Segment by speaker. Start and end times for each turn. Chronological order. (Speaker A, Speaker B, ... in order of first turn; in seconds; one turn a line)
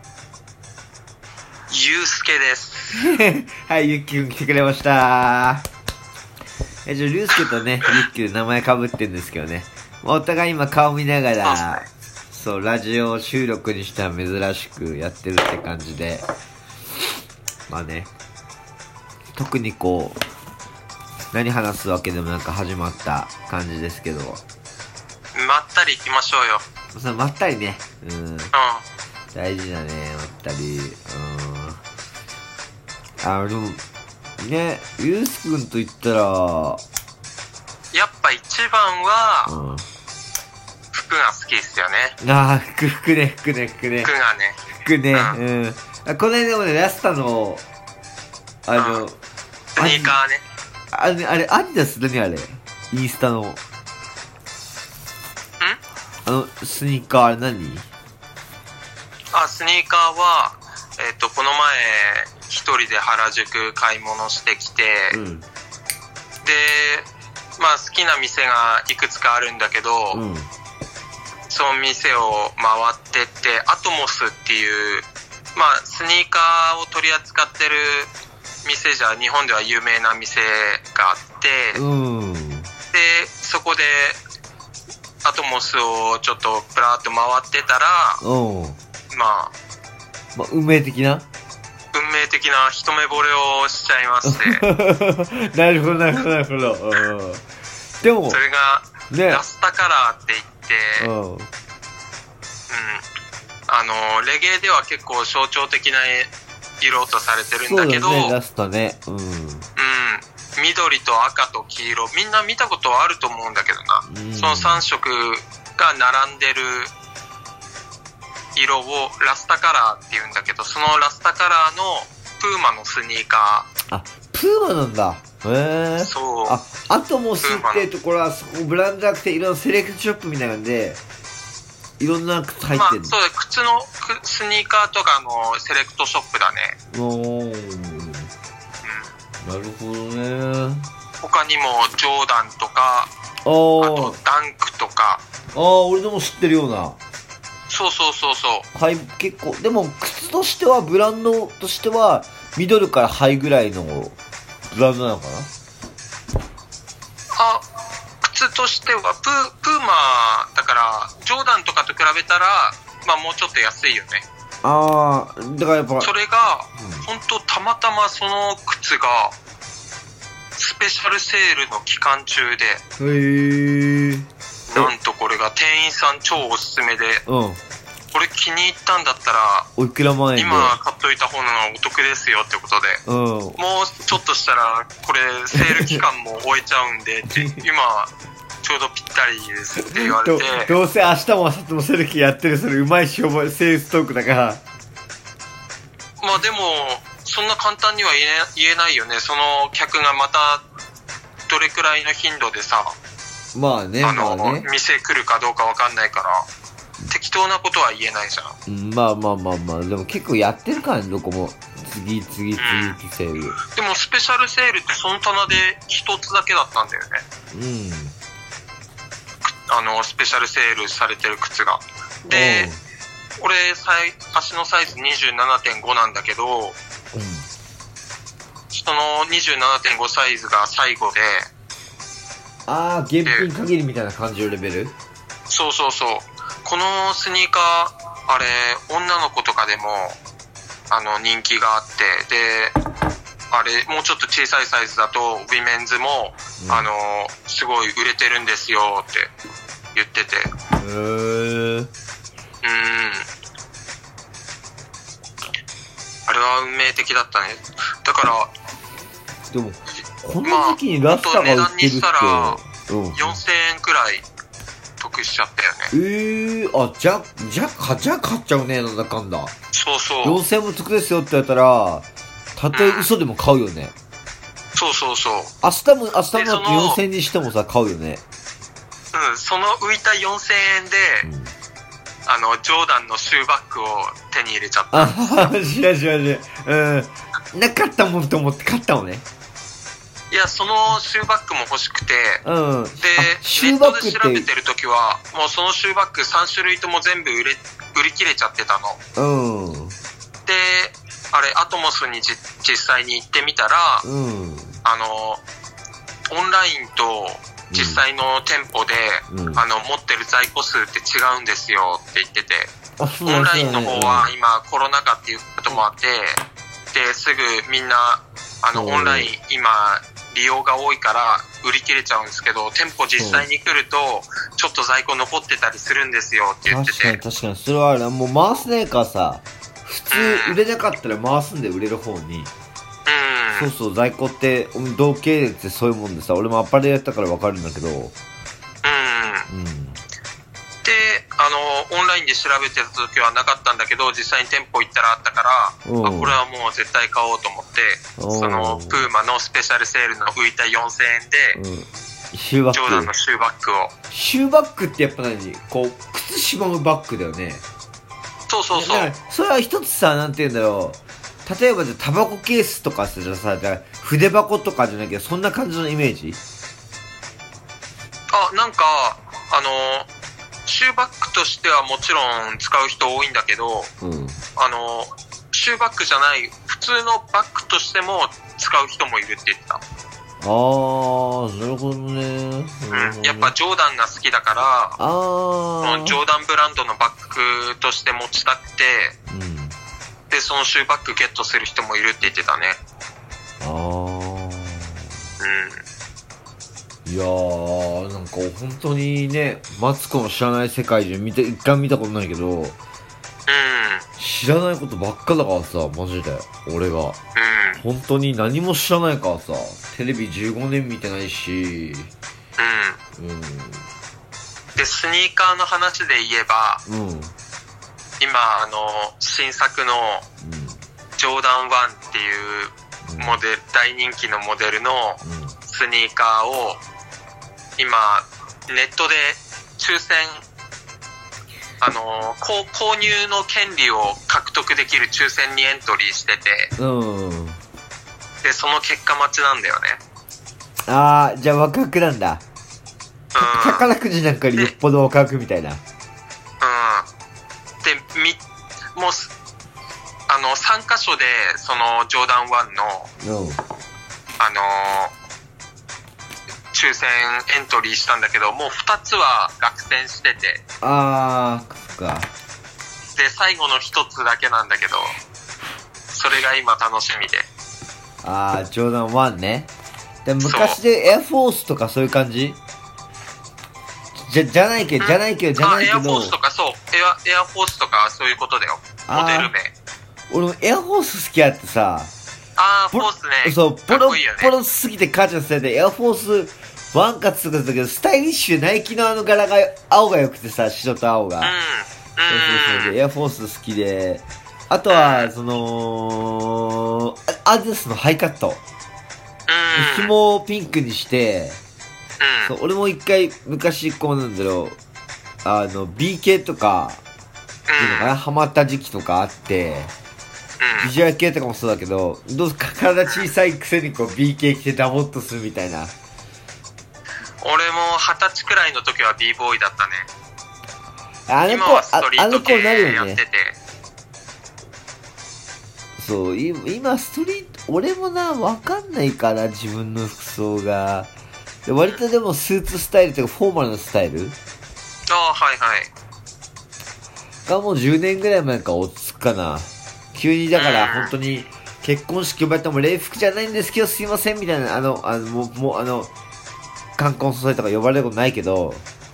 Speaker A: 1.7-3.1
Speaker B: 2.9-5.6
Speaker B: 6.8-16.3
Speaker A: 11.4-11.9
Speaker B: 17.7-18.1
Speaker B: 19.4-20.2
Speaker B: 21.3-24.4
Speaker A: 25.4-26.6
Speaker B: 26.9-28.5
Speaker A: 28.5-28.8
Speaker B: 29.3-31.8
Speaker B: 33.2-33.8
Speaker B: 34.4-36.8
Speaker A: 37.9-39.5
Speaker B: 39.5-39.9
Speaker A: 40.9-42.2
Speaker B: 42.2-44.1
Speaker A: 44.0-44.6
Speaker B: 44.8-47.6
Speaker A: 45.1-45.4
Speaker B: 48.7-49.2
Speaker A: 48.8-49.0
Speaker A: 49.7-50.4
Speaker B: 49.8-50.2
Speaker B: 50.9-53.6
Speaker B: 56.3-57.9
Speaker A: 59.3-65.2
Speaker B: 65.1-65.5
Speaker A: 66.4-70.2
Speaker B: 70.1-70.5
Speaker A: 71.5-78.1
Speaker A: 78.6-81.8
Speaker B: 81.7-82.7
Speaker A: 82.9-84.2
Speaker A: 85.2-88.2
Speaker B: 88.2-88.8
Speaker A: 89.1-89.5
Speaker B: 90.3-91.2
Speaker A: 91.9-94.6
Speaker B: 94.2-97.5
Speaker B: 98.0-98.4
Speaker A: 98.3-101.1
Speaker B: 99.1-99.4
Speaker B: 101.0-101.5
Speaker A: 102.7-103.0
Speaker A: 103.7-108.4
Speaker B: 107.7-109.7
Speaker A: 109.8-116.9
Speaker B: 114.1-114.8
Speaker A: 118.5-123.7
Speaker B: 123.9-131.0
Speaker A: 126.0-126.6
Speaker A: 127.4-127.9
Speaker B: 132.0-133.2
Speaker A: 132.7-136.8
Speaker B: 136.9-138.3
Speaker A: 138.8-139.1
Speaker B: 139.4-140.8
Speaker A: 141.2-143.1
Speaker B: 143.4-144.2
Speaker A: 143.8-145.2
Speaker B: 145.5-147.0
Speaker A: 147.7-148.7
Speaker B: 148.7-154.2
Speaker B: 154.7-155.5
Speaker A: 157.4-157.6
Speaker A: 158.2-164.2
Speaker B: 164.6-166.1
Speaker A: 166.0-169.3
Speaker B: 166.8-167.1
Speaker A: 170.6-172.8
Speaker B: 173.0-174.9
Speaker A: 174.7-177.2
Speaker B: 177.3-177.6
Speaker A: 178.1-179.7
Speaker B: 179.8-180.8
Speaker A: 180.4-183.0
Speaker B: 183.1-183.6
Speaker A: 183.6-188.1
Speaker B: 185.5-186.0
Speaker B: 187.3-187.7
Speaker A: 188.6-190.8
Speaker B: 189.8-194.6
Speaker A: 196.2-200.6
Speaker A: 201.5-203.0
Speaker B: 203.5-204.7
Speaker A: 204.0-206.5
Speaker A: 207.1-208.6
Speaker B: 208.7-213.6
Speaker A: 212.6-213.0
Speaker A: 213.7-217.2
Speaker B: 217.5-218.2
Speaker A: 219.7-222.7
Speaker B: 222.3-222.8
Speaker A: 223.4-226.8
Speaker B: 227.1-227.5
Speaker A: 228.7-231.5
Speaker B: 232.7-235.0
Speaker A: 235.5-240.2
Speaker A: 240.9-242.8
Speaker A: 243.5-249.3
Speaker B: 246.6-246.9
Speaker A: 249.9-250.5
Speaker B: 250.8-251.9
Speaker A: 252.6-253.3
Speaker A: 256.3-258.5
Speaker B: 259.5-263.4
Speaker A: 260.4-262.6
Speaker A: 263.1-264.2
Speaker A: 265.0-265.9
Speaker B: 265.9-269.5
Speaker A: 269.7-270.4
Speaker B: 270.2-273.9
Speaker A: 272.7-273.1
Speaker A: 274.8-275.5
Speaker B: 275.6-278.2
Speaker A: 276.3-277.0
Speaker A: 279.1-281.3
Speaker B: 281.2-281.5
Speaker A: 282.3-285.6
Speaker B: 284.9-289.2
Speaker A: 290.3-292.4
Speaker B: 292.4-294.5
Speaker A: 293.0-299.0
Speaker B: 299.2-300.0
Speaker A: 300.5-304.1
Speaker B: 304.0-304.8
Speaker A: 304.9-305.4
Speaker A: 306.3-312.7
Speaker B: 307.7-308.0
Speaker B: 309.3-309.6
Speaker B: 313.0-314.3
Speaker A: 313.3-327.2
Speaker B: 318.7-319.3
Speaker B: 323.2-323.5
Speaker B: 326.6-332.5
Speaker A: 330.1-330.6
Speaker A: 333.1-333.7
Speaker B: 333.6-338.1
Speaker A: 338.8-339.5
Speaker B: 339.5-340.0
Speaker A: 340.8-351.6
Speaker B: 345.9-346.4
Speaker B: 348.2-349.1
Speaker B: 351.5-353.1
Speaker A: 352.7-353.9
Speaker B: 354.1-357.6
Speaker A: 358.5-359.1
Speaker B: 358.7-366.4
Speaker A: 368.3-370.1
Speaker A: 370.7-373.9
Speaker B: 374.0-374.4
Speaker A: 374.6-379.8
Speaker B: 380.4-383.5
Speaker A: 382.9-385.0
Speaker B: 385.0-386.2
Speaker A: 385.8-389.2
Speaker B: 389.3-389.8
Speaker A: 390.3-392.8
Speaker B: 393.6-395.0
Speaker A: 395.4-395.8
Speaker B: 397.1-402.8
Speaker A: 403.5-404.0
Speaker B: 404.2-407.2
Speaker A: 407.4-407.8
Speaker B: 407.8-412.1
Speaker A: 412.6-413.0
Speaker B: 413.2-413.9
Speaker A: 414.8-416.8
Speaker B: 416.9-417.3
Speaker A: 418.2-420.3
Speaker B: 420.4-420.8
Speaker A: 421.2-426.8
Speaker B: 423.1-423.4
Speaker B: 425.2-425.6
Speaker A: 427.8-430.4
Speaker A: 431.8-436.7
Speaker B: 436.8-437.6
Speaker A: 438.4-440.0
Speaker B: 440.9-442.4
Speaker A: 443.3-443.9
Speaker B: 443.4-445.8
Speaker A: 446.6-447.1
Speaker A: 447.8-448.4
Speaker A: 448.9-449.3
Speaker A: 450.3-453.1
Speaker B: 453.2-453.6
Speaker A: 454.4-455.1
Speaker A: 456.7-460.6
Speaker B: 460.8-462.3
Speaker A: 463.2-465.1
Speaker A: 466.1-467.5
Speaker B: 468.2-469.7
Speaker B: 470.2-472.6
Speaker A: 470.4-470.8
Speaker B: 474.2-476.4
Speaker A: 475.0-479.7
Speaker B: 479.1-479.5
Speaker B: 480.3-482.1
Speaker A: 482.6-484.5
Speaker B: 482.9-491.6
Speaker A: 491.4-493.0
Speaker B: 492.3-498.6
Speaker A: 494.9-495.3
Speaker A: 499.5-500.1
Speaker B: 499.7-501.6
Speaker A: 502.2-502.6
Speaker B: 502.5-504.8
Speaker B: 505.4-507.0
Speaker A: 507.7-508.1
Speaker B: 507.8-509.9
Speaker A: 510.6-510.9
Speaker B: 510.8-515.9
Speaker A: 517.4-520.1
Speaker B: 521.3-523.2
Speaker A: 521.5-523.6
Speaker B: 526.0-531.1
Speaker B: 531.7-534.4
Speaker A: 535.1-535.9
Speaker B: 537.5-546.1
Speaker A: 540.5-541.1
Speaker B: 547.0-548.8